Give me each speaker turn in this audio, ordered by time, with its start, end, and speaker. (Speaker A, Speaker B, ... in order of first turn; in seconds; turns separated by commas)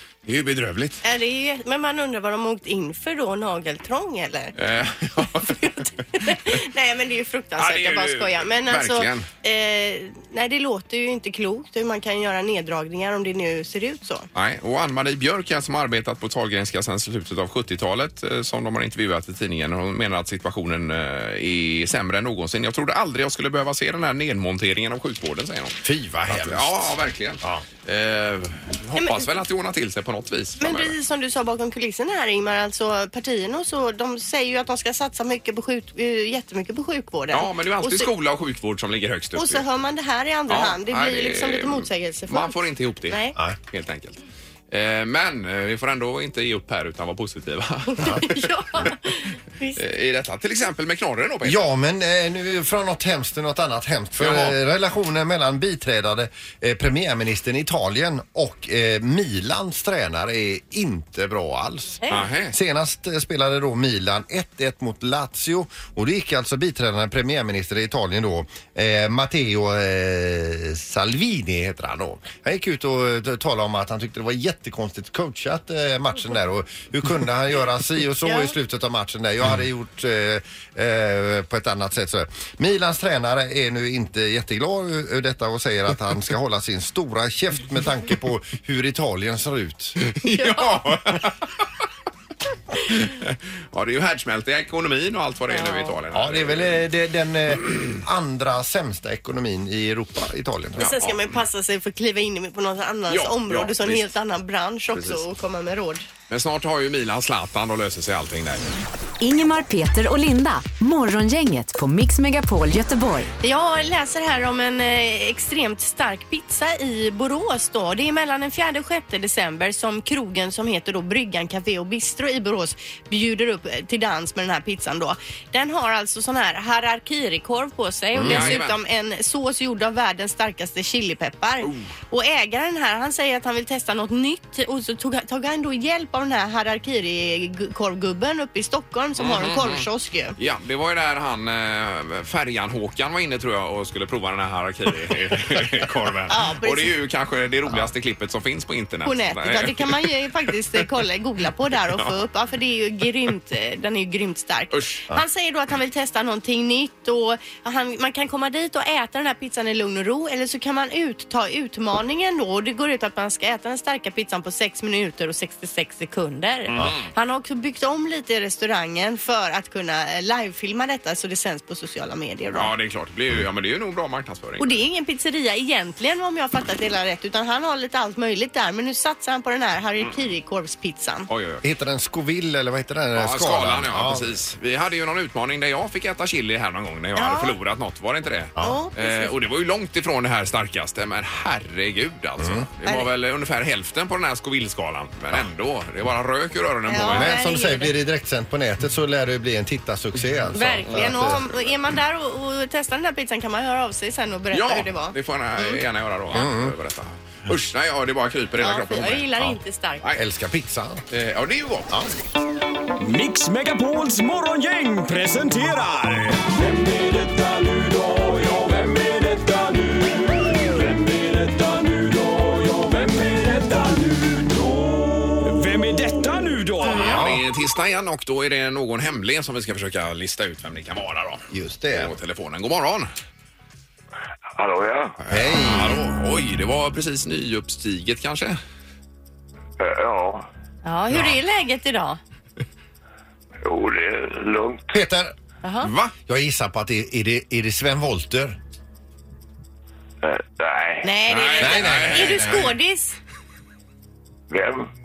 Speaker A: 0.3-1.0, Speaker B: 1.0-4.5, Speaker A: 4.6-5.8, Speaker B: 5.4-14.3, Speaker A: 7.6-9.3, Speaker A: 14.3-30.9, Speaker C: 25.8-27.7, Speaker B: 29.0-29.2, Speaker B: 30.6-38.1, Speaker A: 37.3-39.6, Speaker B: 39.4-42.5, Speaker A: 40.5-48.9, Speaker B: 43.1-43.4, Speaker B: 47.9-49.8, Speaker A: 49.8-51.7, Speaker C: 51.5-90.0, Speaker A: 54.2-54.5, Speaker A: 62.1-62.5, Speaker B: 78.2-78.5, Speaker A: 90.0-91.5, Speaker B: 90.4-90.7, Speaker A: 92.8-96.8, Speaker B: 95.5-95.9, Speaker C: 96.1-100.9, Speaker B: 100.8-106.1, Speaker A: 100.8-101.3, Speaker A: 103.1-104.1, Speaker A: 104.9-105.2, Speaker A: 106.3-108.8, Speaker D: 109.2-113.3, Speaker B: 113.4-140.4, Speaker C: 128.2-128.6, Speaker A: 128.2-128.8, Speaker A: 131.6-131.9, Speaker A: 139.2-150.1, Speaker B: 146.3-146.9, Speaker B: 149.1-172.7, Speaker A: 154.7-155.1, Speaker A: 166.7-167.1, Speaker A: 172.5-174.8, Speaker B: 174.6-181.3, Speaker A: 181.3-181.6, Speaker C: 181.6-184.3, Speaker A: 183.2-197.3, Speaker B: 187.2-187.6, Speaker B: 188.6-189.3, Speaker C: 192.4-192.7, Speaker B: 196.9-197.9, Speaker C: 197.1-201.5, Speaker B: 200.5-205.8, Speaker A: 200.9-201.3, Speaker A: 204.5-209.3, Speaker C: 206.3-206.8, Speaker B: 208.6-210.0, Speaker C: 210.2-211.1, Speaker A: 211.1-211.9, Speaker C: 211.9-212.2, Speaker E: 213.0-227.1, Speaker B: 226.8-227.2, Speaker A: 226.9-233.1, Speaker C: 227.0-227.4, Speaker C: 231.5-232.1, Speaker F: 234.6-235.2, Speaker A: 235.2-238.6, Speaker C: 235.3-236.0, Speaker F: 239.8-240.5, Speaker B: 240.8-242.2, Speaker F: 243.6-244.9, Speaker C: 244.9-245.3, Speaker B: 245.6-245.9, Speaker A: 245.8-246.1, Speaker C: 246.3-248.6, Speaker F: 250.2-251.1, Speaker B: 251.0-253.2, Speaker A: 251.3-252.7, Speaker C: 251.6-252.7, Speaker F: 254.5-254.9